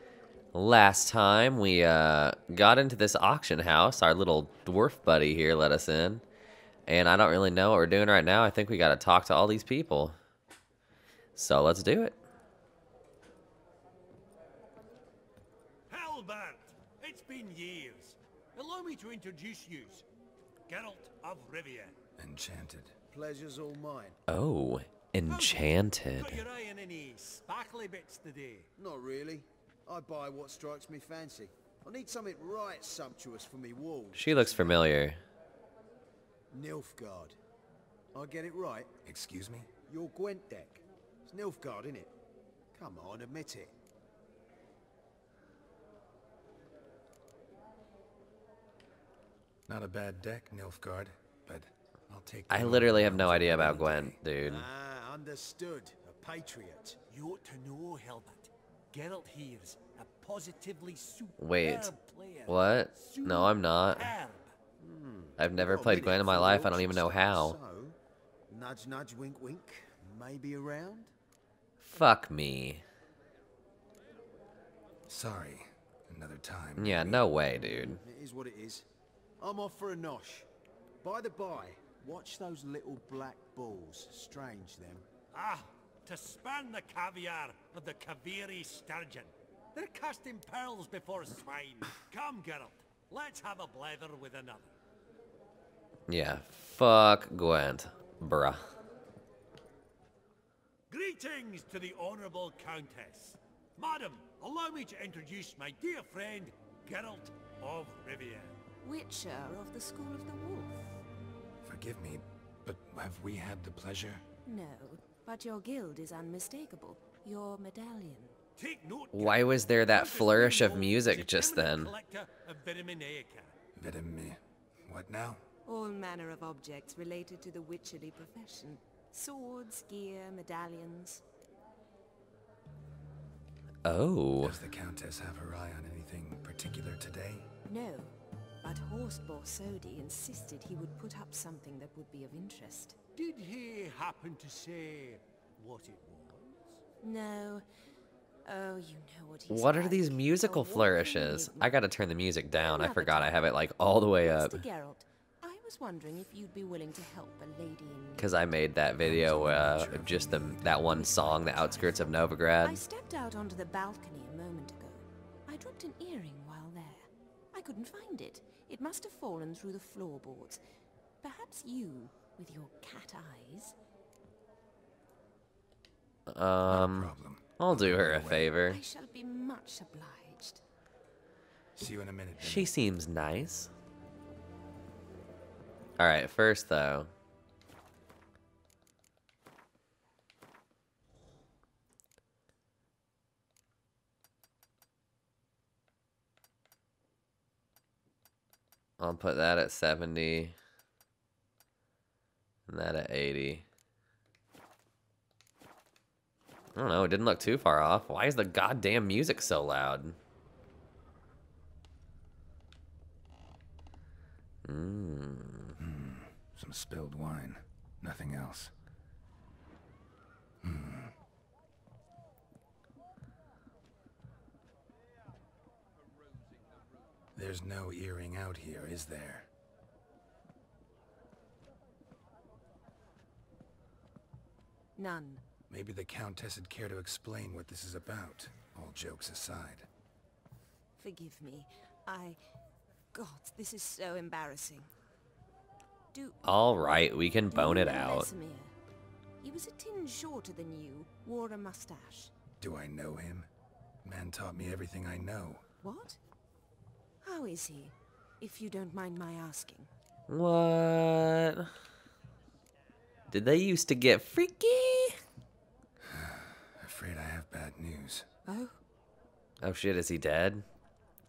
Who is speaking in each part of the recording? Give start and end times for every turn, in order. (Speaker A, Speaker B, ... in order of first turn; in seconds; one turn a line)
Speaker A: 0.5-6.2
Speaker A: 6.9-10.2
Speaker A: 11.4-12.2
Speaker B: 15.9-20.1
Speaker B: 20.7-21.9
Speaker C: 22.2-23.0
Speaker D: 23.1-24.2
Speaker A: 24.3-26.4
Speaker B: 25.3-28.7
Speaker D: 28.8-34.8
Speaker A: 34.1-35.2
Speaker D: 36.5-37.4
Speaker D: 38.1-38.9
Speaker C: 39.0-39.7
Speaker D: 39.9-42.1
Speaker D: 42.8-43.7
Speaker C: 49.7-54.2
Speaker A: 52.5-54.7
Speaker D: 54.4-57.0
Speaker B: 57.1-64.5
Speaker A: 61.4-61.9
Speaker A: 62.5-64.1
Speaker D: 64.8-68.0
Speaker A: 65.4-67.6
Speaker D: 68.5-71.1
Speaker A: 71.8-72.8
Speaker C: 75.1-77.3
Speaker A: 76.8-78.0
Speaker D: 77.6-78.9
Speaker D: 79.4-80.5
Speaker D: 81.0-85.0
Speaker B: 85.3-94.7
Speaker A: 96.1-98.7
Speaker B: 100.9-108.6
Speaker E: 108.8-111.0
Speaker C: 111.6-114.2
Speaker E: 114.4-118.4
Speaker B: 118.6-123.5
Speaker A: 119.1-121.9
Speaker C: 123.8-125.4
Speaker E: 125.7-131.2
Speaker A: 133.8-134.6
Speaker C: 134.4-137.5
Speaker E: 137.7-143.0
Speaker B: 143.2-146.4
Speaker D: 145.9-146.3
Speaker E: 147.0-147.7
Speaker E: 148.4-151.8
Speaker A: 149.5-154.6
Speaker E: 152.6-158.3
Speaker A: 158.2-162.8
Speaker C: 159.0-162.2
Speaker E: 160.9-162.1
Speaker E: 162.6-170.6
Speaker E: 171.2-173.8
Speaker A: 176.3-178.8
Speaker C: 176.7-178.5
Speaker E: 178.6-180.6
Speaker C: 181.8-182.7
Speaker A: 182.4-183.7
Speaker A: 186.0-187.1
Speaker A: 199.0-200.5
Speaker A: 202.7-203.7
Speaker A: 206.8-210.2
Speaker A: 214.7-215.8
Speaker C: 215.8-218.7
Speaker C: 220.6-221.2
Speaker C: 227.3-229.5
Speaker E: 234.9-235.4
Speaker C: 235.7-239.9
Speaker E: 241.0-242.4
Speaker E: 243.1-244.9
Speaker E: 246.1-246.4
Speaker A: 246.4-248.3
Speaker E: 247.5-248.8
Speaker E: 249.4-252.3
Speaker C: 252.6-253.5
Speaker C: 254.0-255.6
Speaker E: 255.8-256.2
Speaker E: 257.2-259.9
Speaker A: 260.3-261.7
Speaker A: 263.3-265.2
Speaker C: 266.0-268.3
Speaker E: 268.5-268.8
Speaker A: 269.6-270.6